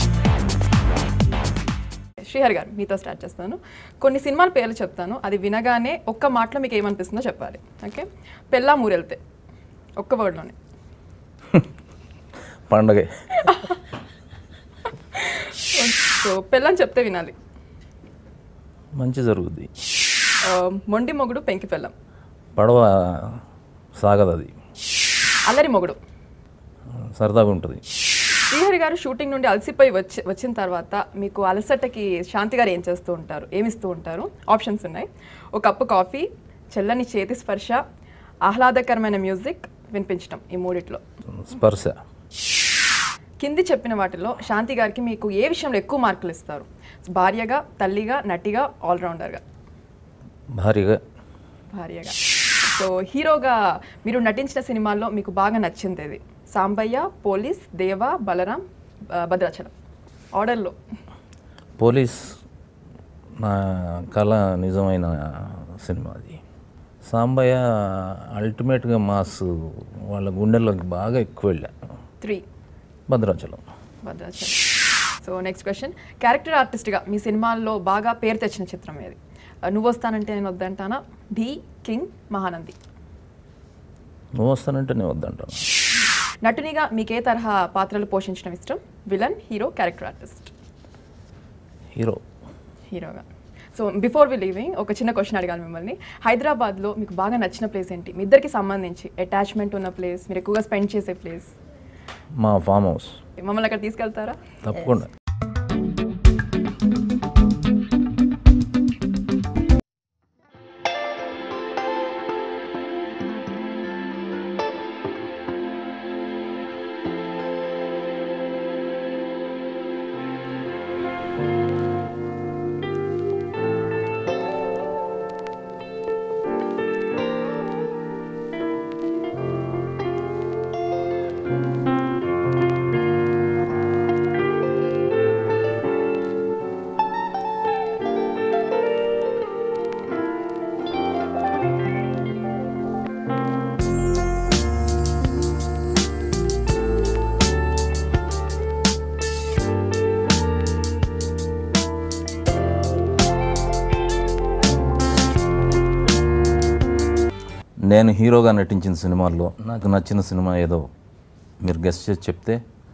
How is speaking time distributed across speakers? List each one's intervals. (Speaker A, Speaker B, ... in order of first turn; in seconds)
Speaker A: 2.2-9.2, 10.0-10.6, 13.3-13.8, 15.1-17.4, 20.4-21.9, 25.5-26.0, 28.5-37.8, 38.5-41.0, 43.4-49.4, 51.7-59.7, 60.4-60.8, 74.0-74.6, 75.2-82.8, 86.4-90.5, 92.9-101.5, 103.4-104.5
Speaker B: 12.7-13.5, 19.0-19.7, 22.6-23.4, 24.0-24.5, 27.1-27.8, 41.3-42.0, 50.5-51.0, 61.8-62.4, 63.4-66.4, 67.1-71.7, 73.1-73.6, 84.4-85.7, 92.0-92.2, 102.4-103.2, 104.6-105.1, 157.9-160.9, 161.6-162.6